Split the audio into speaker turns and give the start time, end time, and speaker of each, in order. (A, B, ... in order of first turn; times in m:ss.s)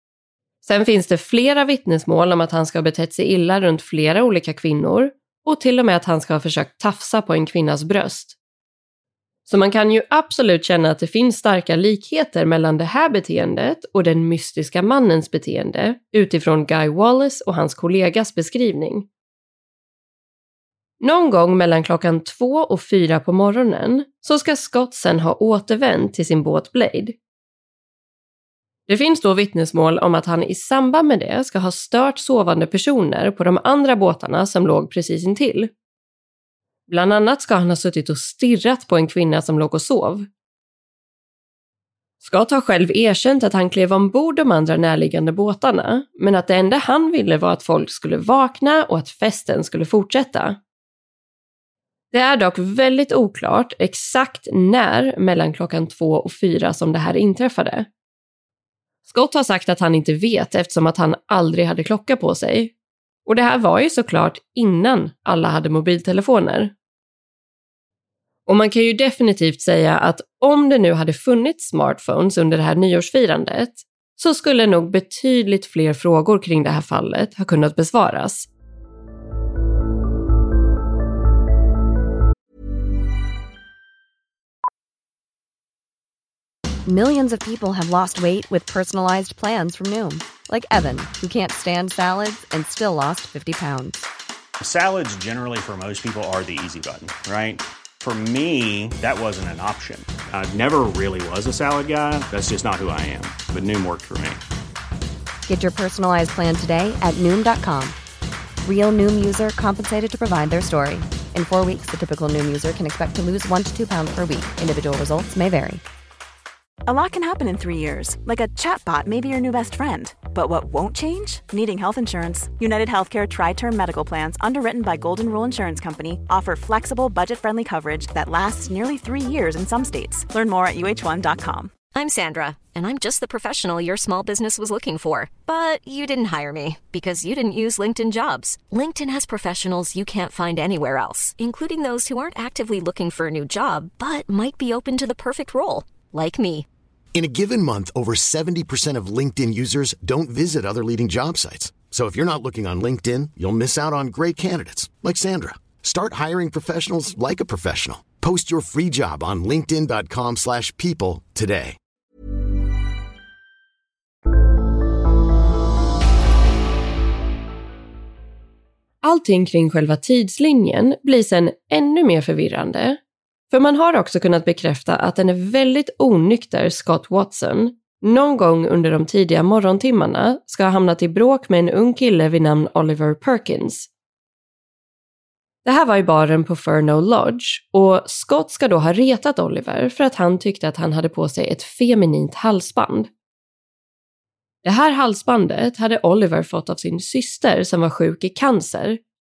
0:00.6-0:08.4 A
0:09.5-0:19.1 A
0:21.0-0:27.2 A
0:28.9-0:35.7 A
0:36.9-0:40.3 A
0:42.2-0:50.6 A
0:52.1-0:57.9 A
0:59.1-1:02.7 A
1:03.2-1:06.7 A
1:08.4-1:18.5 A
1:26.8-1:34.0 B
1:34.6-1:44.4 C
1:45.4-1:48.0 B
1:48.6-1:55.8 B
1:56.8-2:11.7 D
2:11.9-2:26.6 E
2:27.1-2:41.8 F
2:49.0-2:53.0 A
2:53.5-3:03.9 A
3:05.6-3:13.1 A
3:14.6-3:19.0 A